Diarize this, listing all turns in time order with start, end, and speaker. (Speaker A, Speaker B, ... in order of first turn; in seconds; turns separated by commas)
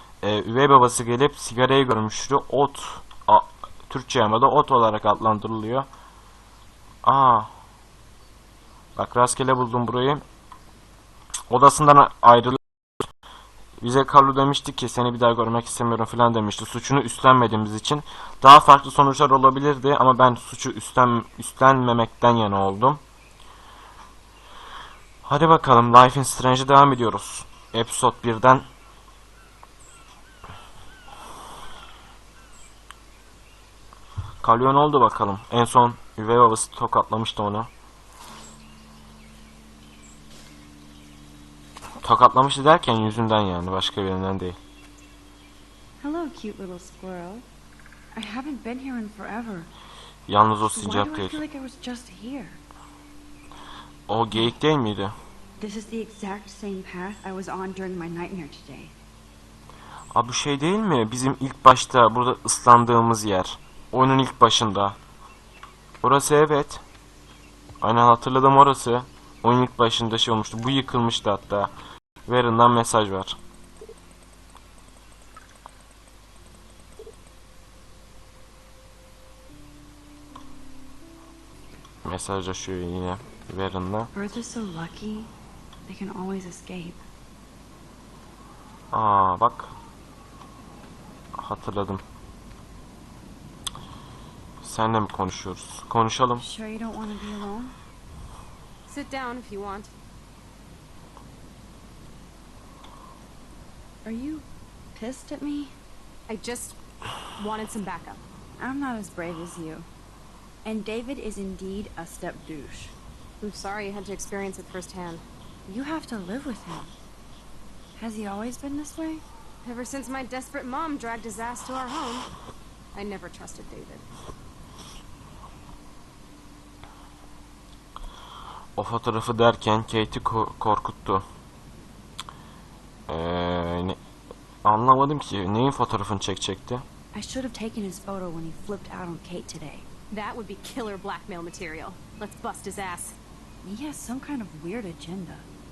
Speaker A: 0.2-5.9, Speaker A: 7.0-7.5, Speaker A: 8.9-10.2, Speaker A: 11.5-12.6, Speaker A: 13.8-23.0, Speaker A: 25.2-28.6, Speaker A: 34.4-37.7, Speaker A: 42.0-44.6, Speaker B: 46.0-47.5, Speaker B: 48.1-49.7, Speaker A: 50.3-51.4, Speaker B: 50.6-52.6, Speaker A: 54.1-55.1, Speaker B: 55.6-58.9, Speaker A: 60.1-65.0, Speaker A: 66.0-66.8, Speaker A: 67.8-71.7, Speaker A: 72.2-73.4, Speaker A: 82.0-84.1, Speaker B: 84.1-85.3, Speaker B: 85.8-87.0, Speaker A: 88.9-89.7, Speaker A: 91.4-92.0, Speaker A: 94.6-96.4, Speaker B: 96.4-97.8, Speaker C: 98.9-99.9, Speaker B: 104.0-105.8, Speaker C: 106.3-106.8, Speaker C: 107.4-108.2, Speaker B: 108.6-109.9, Speaker B: 110.6-112.9, Speaker C: 113.4-115.2, Speaker B: 115.7-116.9, Speaker B: 118.0-119.2, Speaker C: 119.6-122.3, Speaker C: 122.9-124.0, Speaker A: 128.8-131.2, Speaker A: 133.1-134.0, Speaker A: 134.6-136.8, Speaker B: 137.1-139.9, Speaker C: 140.1-143.2, Speaker B: 143.6-145.5